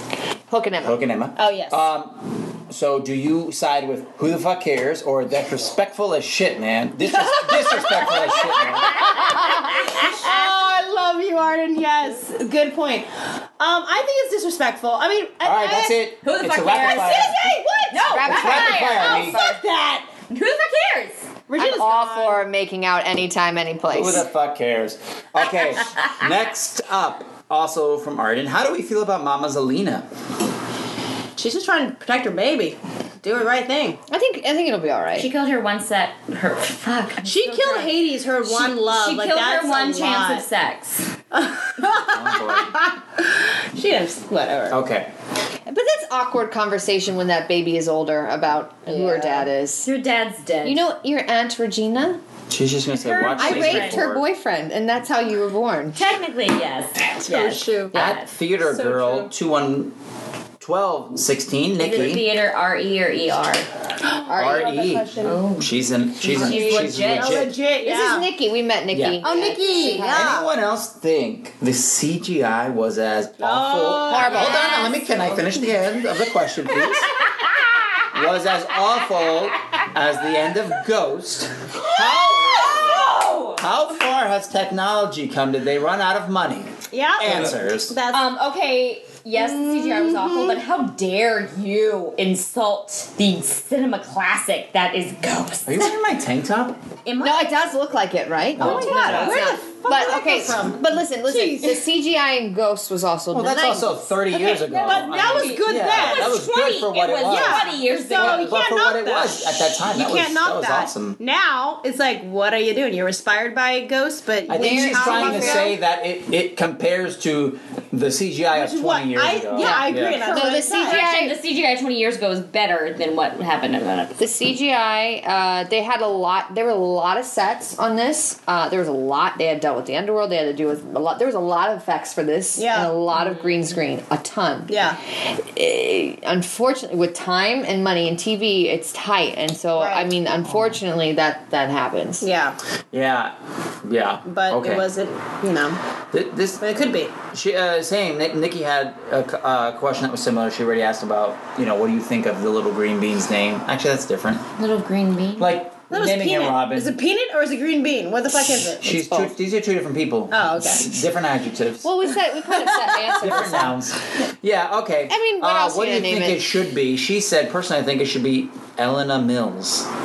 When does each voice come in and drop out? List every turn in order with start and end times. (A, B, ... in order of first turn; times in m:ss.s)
0:00.5-0:01.0 A
0:00.8-0:09.2 B
0:01.4-0:01.8 C
0:07.2-0:13.1 C
0:13.6-0:16.0 C
0:15.4-0:17.5 B
0:16.2-0:17.4 D
0:16.7-0:20.1 C
0:17.9-0:19.4 D
0:18.1-0:19.6 A
0:18.3-0:19.4 B
0:20.3-0:21.3 D
0:21.5-0:22.4 C
0:21.6-0:24.3 A
0:23.9-0:30.1 B
0:31.4-0:34.0 C
0:34.1-0:35.3 A
0:35.2-0:41.1 D
0:37.2-0:40.4 C
0:41.3-0:44.8 C
0:42.0-0:42.8 B
0:44.7-0:45.1 B
0:45.7-0:49.9 A
0:48.9-0:49.5 C
0:49.8-0:50.8 D
0:50.6-0:52.2 A
0:52.5-0:54.2 B
0:53.0-0:53.8 C
0:53.2-0:54.0 D
0:53.3-0:56.0 A
0:56.0-0:58.3 D
0:57.2-0:58.0 C
0:57.9-0:59.9 B
0:58.6-0:59.3 C
1:00.6-1:02.3 B
1:01.8-1:03.7 D
1:04.0-1:05.4 C
1:04.3-1:04.7 A
1:04.4-1:07.6 B
1:05.2-1:07.5 D
1:06.3-1:08.3 C
1:07.8-1:10.4 A
1:08.9-1:09.2 B
1:09.2-1:10.5 C
1:09.2-1:10.1 D
1:10.0-1:17.2 B
1:13.4-1:15.0 C
1:14.1-1:14.9 A
1:14.3-1:15.7 D
1:18.1-1:22.8 B
1:21.8-1:23.6 D
1:23.6-1:28.0 B
1:26.9-1:28.3 C
1:28.1-1:36.0 D
1:29.4-1:30.6 C
1:35.7-1:36.8 B
1:37.1-1:37.6 D
1:37.2-1:44.1 A
1:38.6-1:39.4 B
1:38.6-1:41.8 C
1:38.7-1:39.4 D
1:43.3-1:51.2 B
1:44.3-1:46.5 C
1:44.7-1:48.6 D
1:47.2-1:55.8 C
1:54.5-2:00.2 B
1:54.6-1:55.7 A
1:58.5-2:01.0 C
1:59.6-2:01.4 A
2:00.4-2:04.2 D
2:04.2-2:22.3 A
2:12.6-2:12.9 C
2:13.1-2:13.5 D
2:14.7-2:15.0 C
2:19.8-2:20.1 C
2:22.2-2:22.6 C
2:22.9-2:24.9 B
2:24.2-2:25.8 C
2:26.1-2:26.7 B
2:26.6-2:27.2 C
2:27.2-2:34.4 B
2:34.6-2:35.6 D
2:35.4-2:37.0 B
2:35.9-2:38.9 C
2:38.8-2:41.9 B
2:38.8-2:39.4 A
2:40.3-2:41.0 C
2:41.8-2:43.8 A
2:42.5-2:43.5 C
2:43.2-2:49.9 B
2:45.1-2:46.5 A